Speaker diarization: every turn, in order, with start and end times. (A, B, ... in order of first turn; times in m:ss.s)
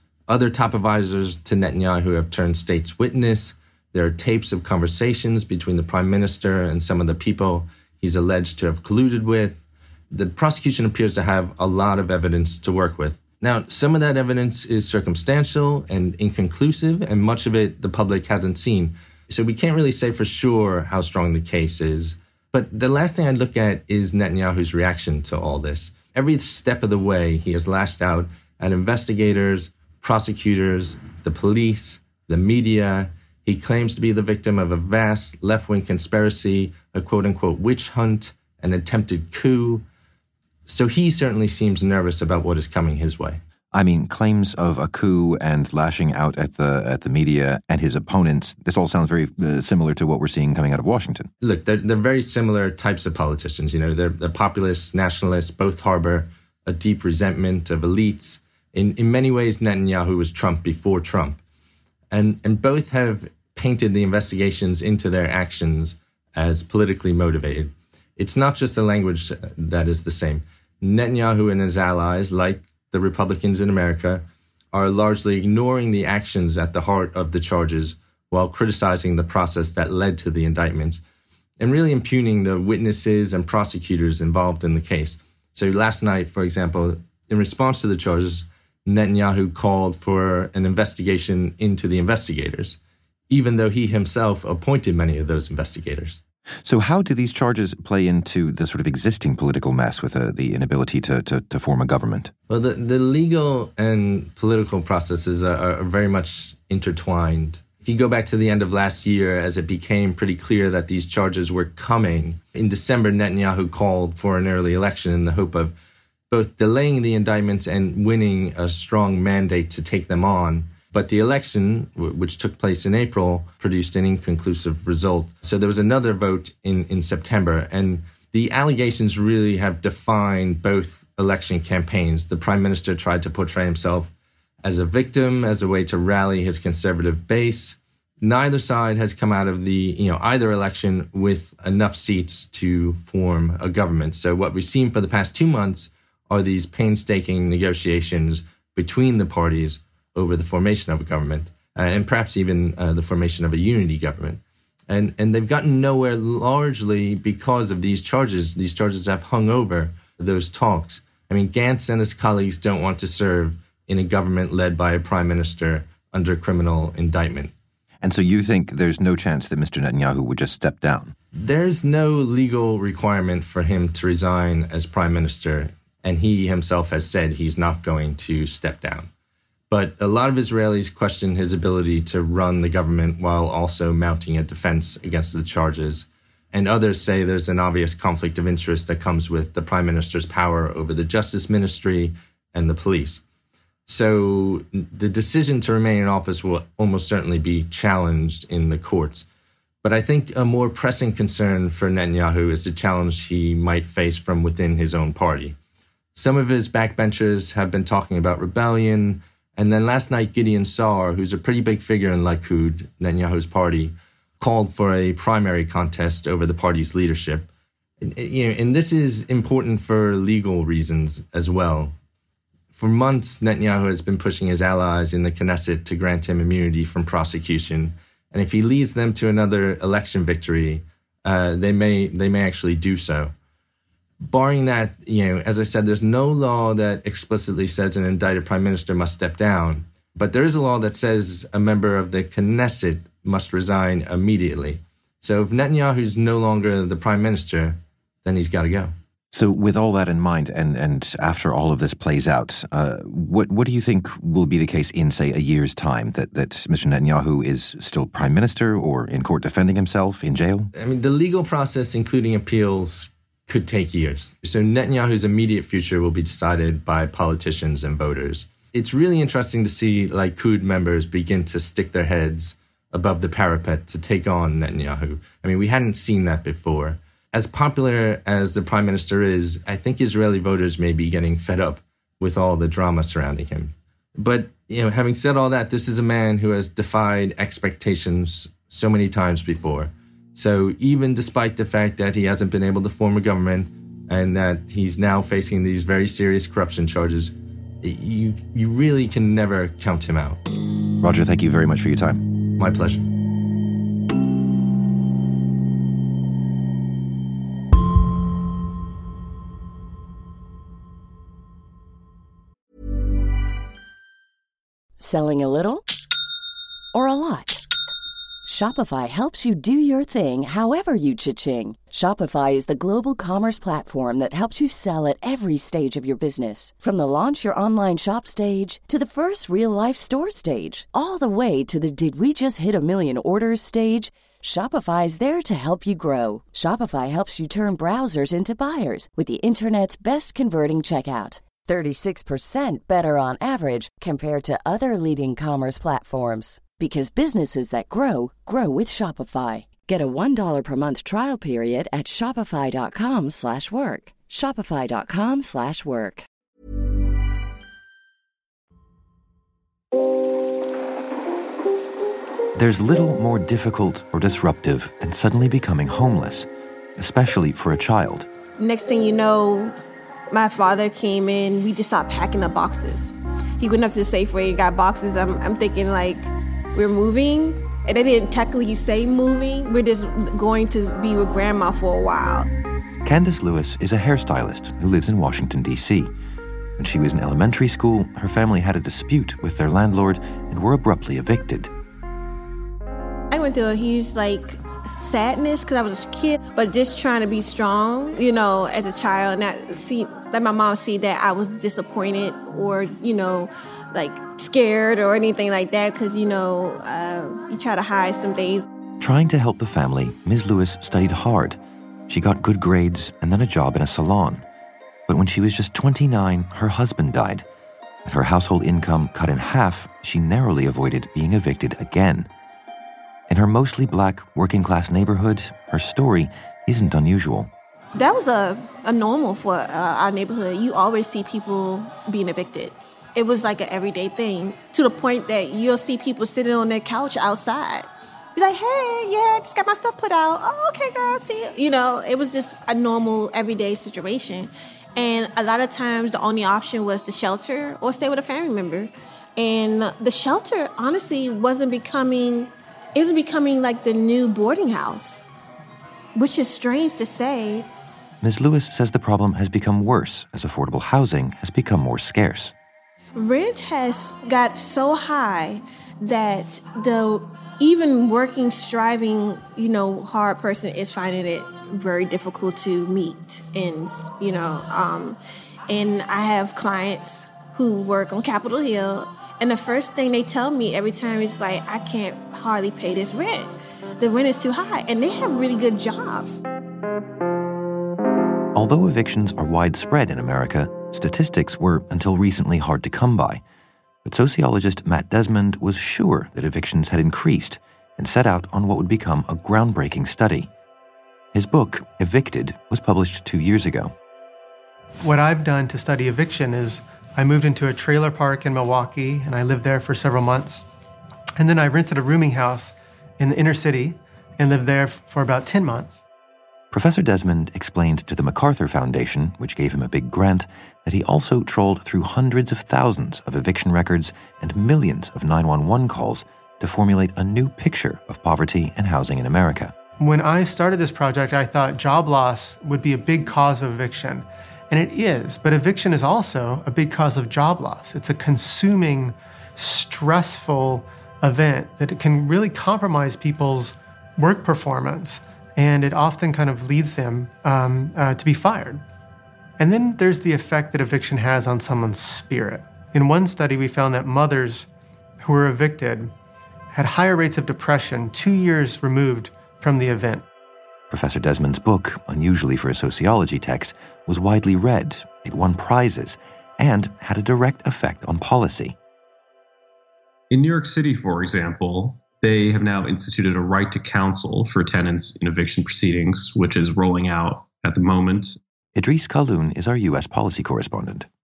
0:00.3-0:39.8 A
0:40.7-0:43.4 A
0:43.7-0:51.3 B
0:51.4-1:01.4 A
1:02.1-1:21.0 A
1:21.6-1:32.8 A
1:33.3-1:36.2 A
1:36.6-1:42.3 B
1:42.5-1:55.7 A
1:56.3-2:47.5 A
2:48.0-2:51.1 B
2:51.4-2:59.1 A
2:59.7-3:13.2 A
3:13.9-3:19.2 A
3:19.8-3:25.6 A
3:26.1-3:37.5 A
3:38.0-3:41.9 A
3:42.7-3:53.3 A
3:54.2-4:08.9 A
4:09.3-4:20.7 B
4:20.7-5:00.4 A
5:01.0-5:02.2 B
5:02.6-5:03.0 A
5:15.0-5:15.8 C
5:16.9-5:17.6 C
5:18.4-5:56.2 C
6:02.5-6:08.3 B
6:08.6-6:09.7 D
6:10.3-6:22.5 D
6:23.0-6:26.1 B
6:26.8-6:31.7 B
6:33.3-6:48.6 D
6:49.0-6:54.4 B
6:55.1-6:57.4 B
6:58.0-7:02.3 B
7:03.3-7:07.5 B
7:07.9-7:35.2 D
7:36.2-7:37.6 D
7:38.2-7:42.5 B
7:43.2-7:55.2 D
7:55.7-8:06.4 D
8:08.5-8:13.4 B
8:14.0-8:20.5 B
8:21.3-8:23.9 B
8:25.0-8:30.7 E
8:31.4-8:36.0 E
8:36.7-8:49.7 B
8:50.0-9:08.8 E
9:09.6-9:14.7 E
9:15.2-9:16.1 E
9:16.7-9:20.2 E
9:20.9-9:28.8 B
9:30.3-9:38.4 F
9:38.7-9:41.1 B